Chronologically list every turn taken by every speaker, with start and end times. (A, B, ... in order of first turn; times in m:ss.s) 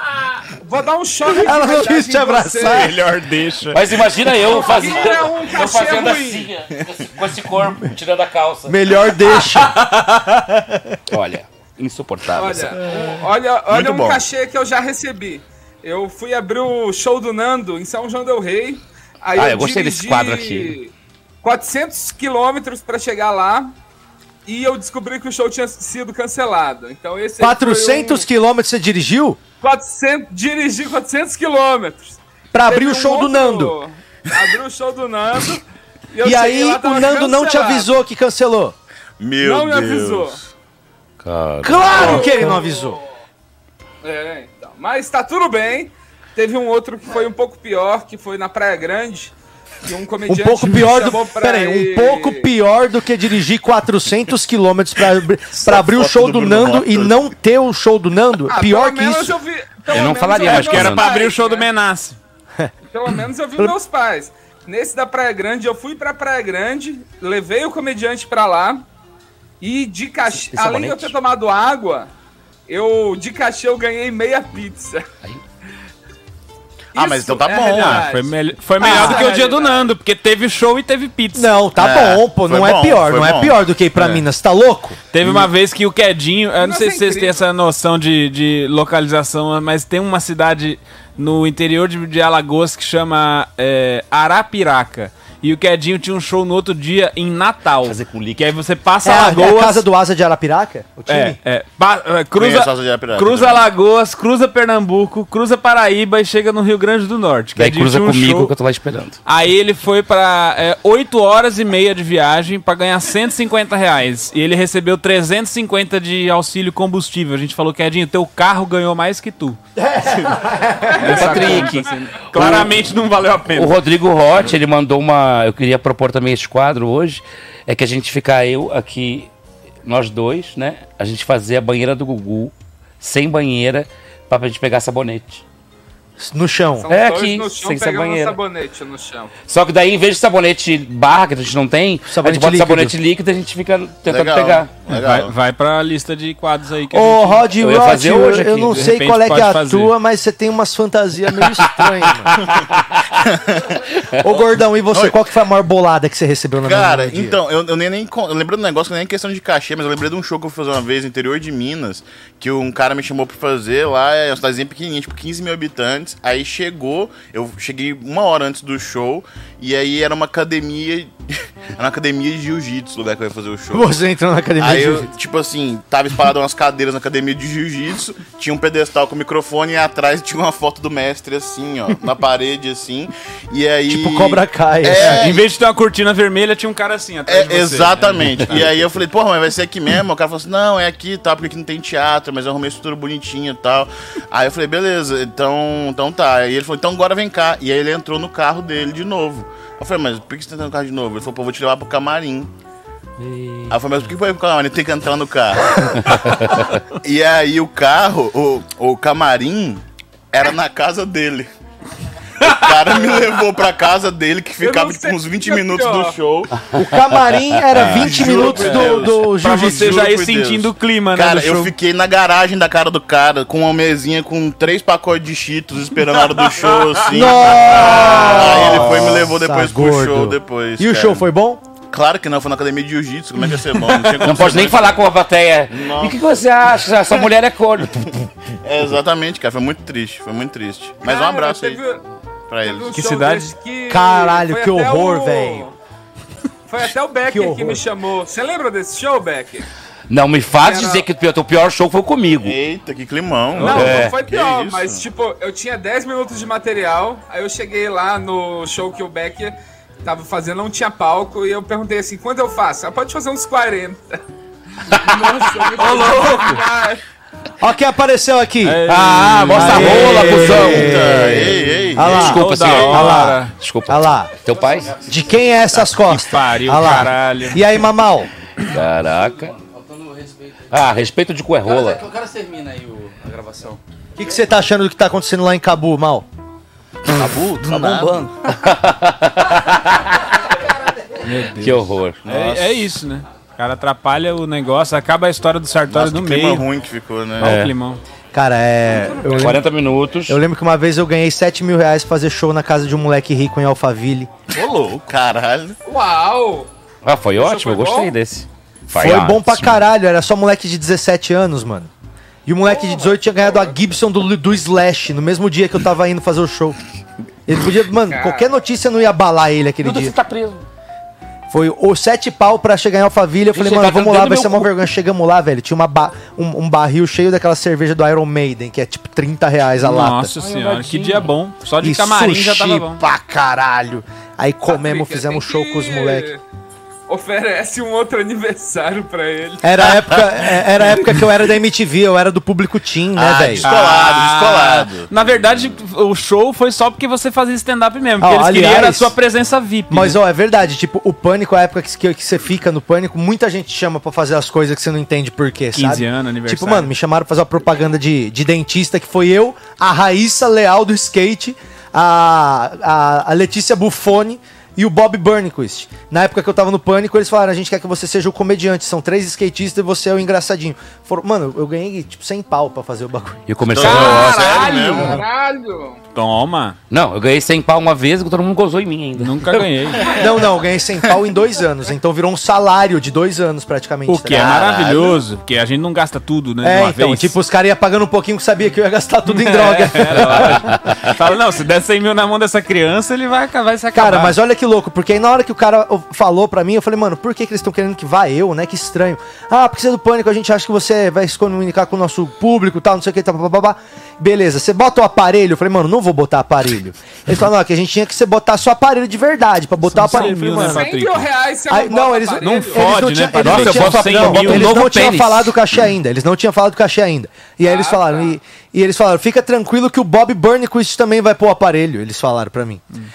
0:00.6-0:02.9 A
0:01.3-0:03.0 B
0:02.6-0:04.0 C
0:03.7-0:08.8 D
0:04.4-0:06.5 A
0:08.7-0:11.0 B
0:11.1-0:12.8 D
0:12.3-0:23.7 A
0:13.7-0:14.2 E
0:19.3-0:20.7 D
0:24.4-0:28.3 A
0:27.4-0:29.4 B
0:29.6-0:35.6 A
0:32.5-0:33.8 B
0:36.1-0:38.0 A
0:36.2-0:38.7 B
0:39.2-0:40.4 E
0:39.4-0:40.4 A
0:41.2-0:42.2 D
0:41.6-0:43.0 B
0:42.0-0:42.5 A
0:44.0-0:52.5 A
0:50.3-0:59.3 B
0:55.5-0:57.2 E
0:58.5-1:01.7 A
0:59.9-1:01.1 D
1:00.4-1:02.2 C
1:02.9-1:08.8 A
1:09.6-1:12.1 A
1:10.4-1:11.1 D
1:12.7-1:15.0 A
1:16.9-1:18.1 E
1:16.9-1:19.9 A
1:17.5-1:21.5 C
1:18.8-1:19.2 B
1:21.3-1:25.0 B
1:21.7-1:23.6 E
1:24.0-1:24.2 C
1:25.1-1:39.8 C
1:26.6-1:27.4 A
1:37.8-1:38.5 D
1:39.0-1:41.4 B
1:41.1-1:48.5 C
1:42.4-1:43.7 E
1:47.6-1:49.2 D
1:49.2-1:59.6 C
1:59.8-2:01.6 B
2:00.9-2:03.7 C
2:01.0-2:02.8 D
2:03.5-2:09.3 D
2:09.8-2:15.4 D
2:16.2-2:16.9 B
2:16.8-2:19.3 A
2:16.9-2:18.4 D
2:19.5-2:24.7 D
2:22.1-2:23.0 B
2:24.1-2:25.3 E
2:24.9-2:27.5 C
2:26.9-2:32.4 B
2:27.6-2:28.9 D
2:28.7-2:30.0 C
2:32.5-2:33.0 D
2:33.3-2:33.6 E
2:34.2-2:37.4 B
2:36.6-2:51.1 E
2:51.8-2:53.9 E
2:53.7-2:55.1 B
2:54.6-3:05.4 E
3:03.9-3:05.3 B
3:05.0-3:08.8 C
3:07.3-3:22.5 E
3:23.2-3:23.7 D
3:23.7-3:26.4 E
3:26.2-3:26.4 D
3:27.0-3:31.5 E
3:32.4-3:36.5 E
3:34.6-3:36.2 A
3:36.7-3:40.0 B
3:37.6-3:38.1 D
3:37.8-3:51.2 E
3:38.0-3:41.8 C
3:46.1-3:48.6 C
3:47.1-3:51.6 B
3:51.9-3:55.0 E
3:53.7-3:54.3 C
3:54.2-3:58.3 D
3:55.7-3:56.4 E
3:58.6-4:01.8 E
4:01.0-4:02.0 A
4:02.5-4:03.0 E
4:02.6-4:05.7 A
4:02.9-4:03.5 C
4:03.9-4:05.7 B
4:06.7-4:09.7 A
4:07.3-4:07.8 B
4:10.1-4:12.6 D
4:10.6-4:11.0 A
4:12.4-4:15.0 E
4:13.6-4:24.2 A
4:13.6-4:13.8 C
4:13.6-4:14.1 D
4:24.8-4:27.0 A
4:25.8-4:26.6 C
4:27.6-4:28.9 B
4:28.6-4:30.9 C
4:28.9-4:31.4 D
4:29.4-4:34.3 B
4:30.2-4:32.4 E
4:31.8-4:33.5 C
4:32.0-4:35.0 D
4:34.6-4:35.1 F
4:35.0-4:38.3 B
4:36.0-4:37.6 C
4:38.6-4:39.6 D
4:39.4-4:40.9 F
4:40.7-4:42.1 D
4:41.6-4:43.8 F
4:44.2-4:46.2 B
4:47.1-4:50.3 D
4:47.1-4:48.3 E
4:51.2-4:56.7 C
4:51.6-4:52.2 D
4:52.2-4:52.9 E
4:55.8-4:57.6 E
4:57.4-4:58.0 C
4:57.4-4:57.7 D
4:58.3-4:59.6 B
4:58.9-4:59.4 A
4:59.3-5:00.4 D
5:00.3-5:04.3 B
5:04.5-5:05.8 E
5:05.8-5:06.7 A
5:07.0-5:09.8 D
5:07.4-5:08.1 A
5:08.9-5:11.9 B
5:12.4-5:16.8 B
5:12.6-5:13.8 A
5:17.4-5:20.1 B
5:18.1-5:18.5 A
5:19.8-5:20.6 D
5:21.5-5:30.3 B
5:23.5-5:24.7 D
5:29.8-5:33.0 C
5:30.4-5:31.3 D
5:31.8-5:36.3 B
5:34.7-5:36.4 A
5:37.1-5:39.9 A
5:39.6-5:43.7 B
5:43.2-5:45.5 E
5:43.6-5:50.2 C
5:48.2-5:49.1 B
5:49.9-6:13.4 B
5:55.7-5:56.9 C
6:13.5-6:14.7 D
6:13.7-6:15.2 E
6:13.8-6:16.0 A
6:13.8-6:15.0 C
6:16.1-6:16.8 C
6:16.9-6:19.7 D
6:19.1-6:20.1 C
6:20.0-6:24.6 B
6:24.1-6:27.3 C
6:24.3-6:25.2 E
6:26.6-6:30.7 B
6:29.3-6:34.3 C
6:33.9-6:50.8 B
6:49.9-6:51.3 C
6:50.4-6:52.9 A
6:51.7-7:02.8 B
6:52.4-6:54.9 C
6:53.4-6:55.5 D
6:57.6-6:58.4 A